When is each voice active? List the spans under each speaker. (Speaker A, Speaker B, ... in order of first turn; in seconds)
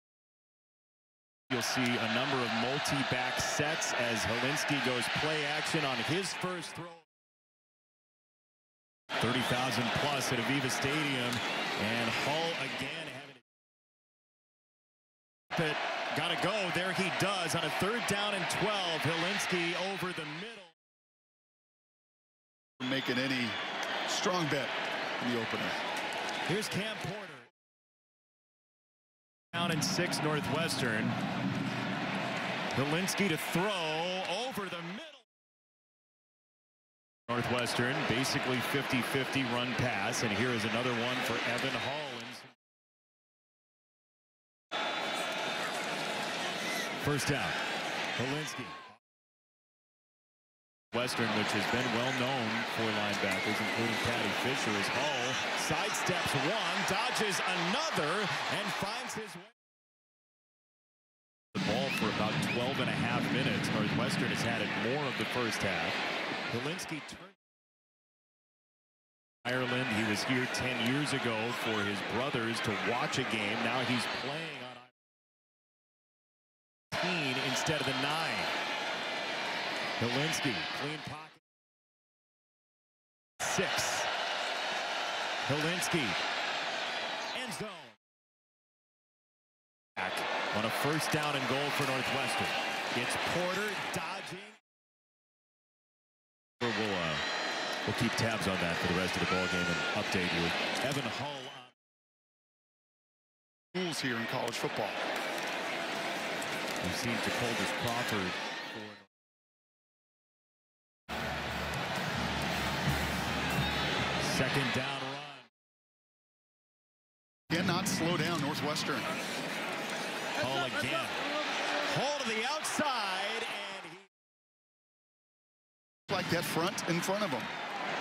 Speaker A: 1.5-7.1, 9.2-13.4, 15.5-20.7, 26.5-27.5, 29.5-31.2, 32.7-35.3, 37.3-42.5, 47.0-47.6, 48.1-48.9, 50.9-59.5, 61.5-67.4, 69.4-74.9, 76.9-78.5, 80.0-81.4, 83.4-84.1, 85.5-86.2, 87.3-88.0, 90.0-94.6, 96.6-97.2, 97.8-101.7, 106.8-109.1, 114.2-115.5, 120.4-124.1
Speaker B: 22.8-23.6, 24.1-25.8, 103.7-105.0, 117.5-119.1, 126.1-127.5